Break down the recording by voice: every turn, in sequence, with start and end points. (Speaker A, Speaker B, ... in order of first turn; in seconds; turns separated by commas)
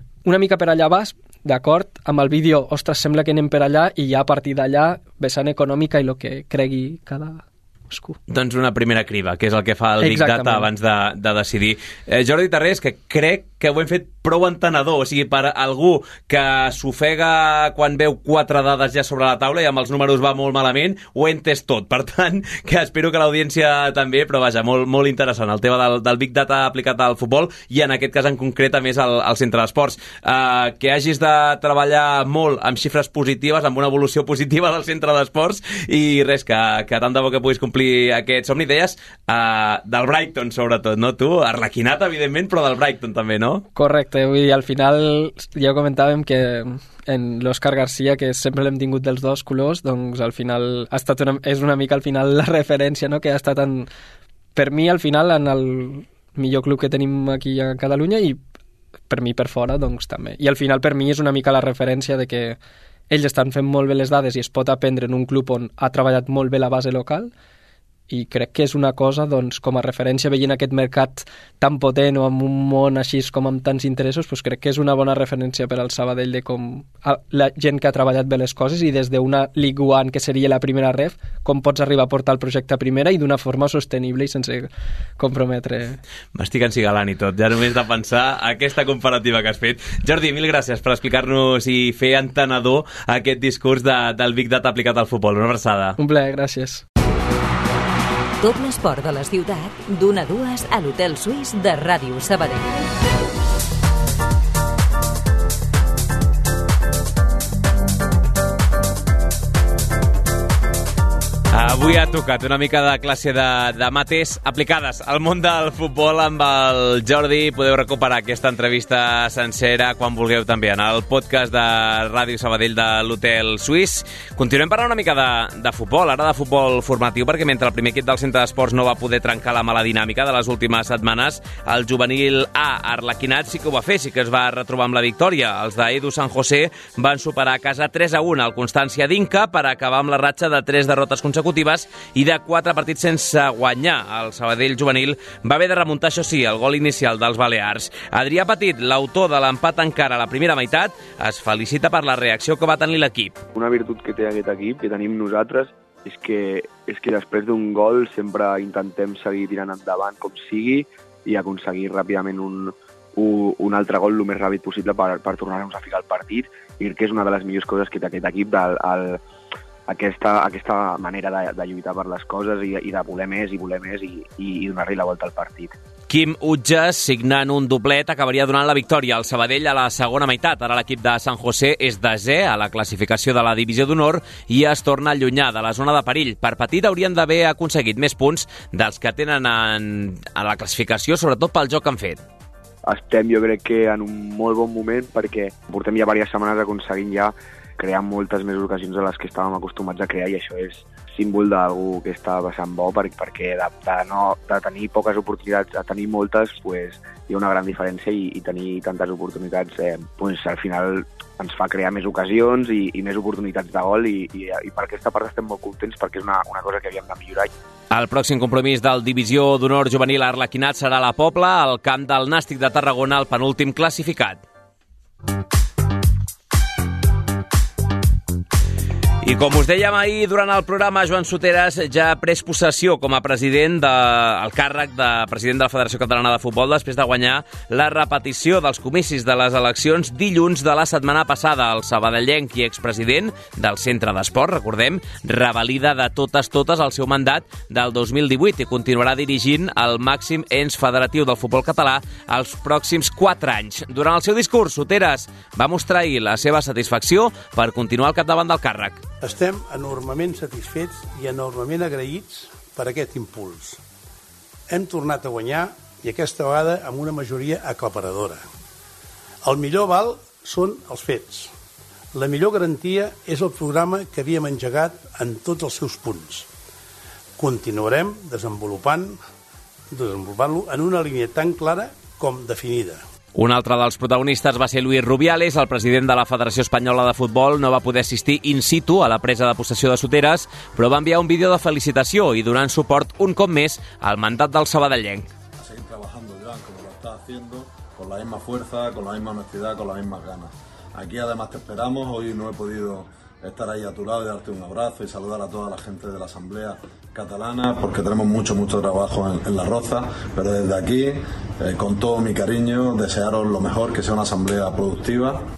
Speaker A: 0.2-8.2, Speaker B: 8.3-43.6, Speaker A: 10.0-10.7, Speaker A: 43.7-53.9, Speaker A: 54.5-58.4, Speaker A: 59.1-62.6, Speaker A: 63.1-67.3, Speaker A: 68.1-86.0, Speaker B: 86.3-96.0, Speaker A: 96.0-96.8, Speaker C: 98.4-102.8, Speaker B: 111.5-153.4, Speaker D: 153.5-169.2, Speaker D: 169.9-175.7, Speaker B: 176.1-192.2, Speaker D: 192.8-217.5, Speaker B: 217.9-224.4, Speaker B: 229.2-259.0, Speaker E: 259.2-263.8, Speaker E: 264.7-268.4, Speaker E: 269.4-271.5, Speaker E: 272.1-276.5, Speaker E: 277.4-279.2, Speaker E: 279.9-283.0, Speaker B: 283.3-295.3, Speaker F: 295.6-315.4